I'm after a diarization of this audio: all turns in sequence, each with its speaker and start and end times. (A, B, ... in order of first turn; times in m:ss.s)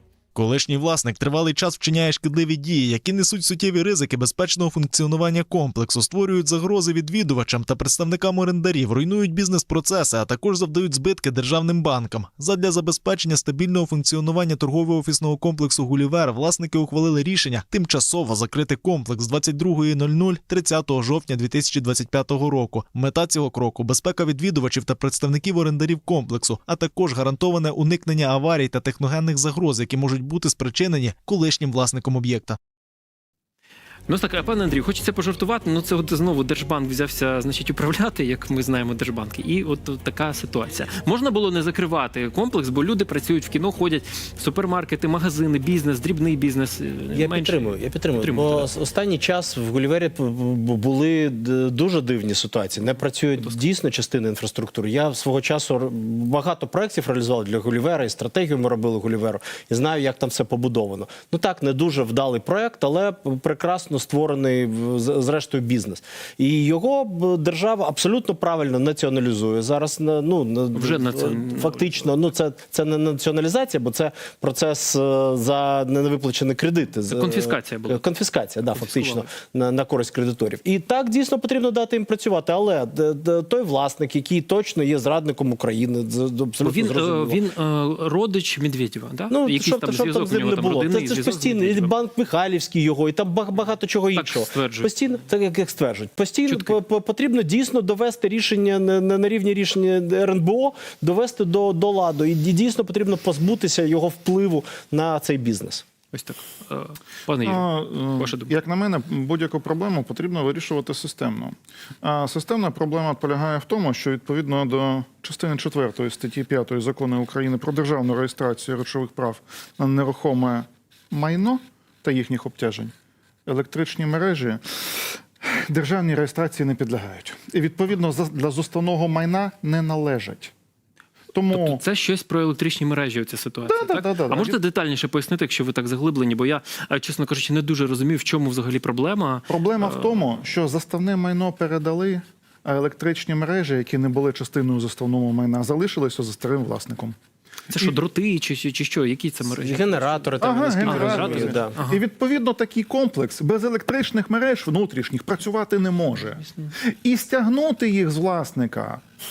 0:00.3-0:32.6 A
0:34.1-0:48.7 B
0:47.1-1:27.4 C
1:10.7-1:12.1 B
1:17.1-1:18.0 B
1:18.7-1:19.3 B
1:26.6-1:31.9 B
1:29.3-1:45.8 C
1:34.1-1:34.9 B
1:36.5-1:36.8 B
1:46.1-1:48.5 B
1:47.4-2:02.9 D
2:03.4-2:10.5 D
2:11.3-2:11.8 D
2:11.5-2:20.2 B
2:13.6-2:14.6 D
2:19.5-2:27.2 D
2:27.7-2:32.0 B
2:27.7-2:28.0 D
2:29.5-2:31.7 C
2:30.4-2:36.4 D
2:37.0-2:39.0 D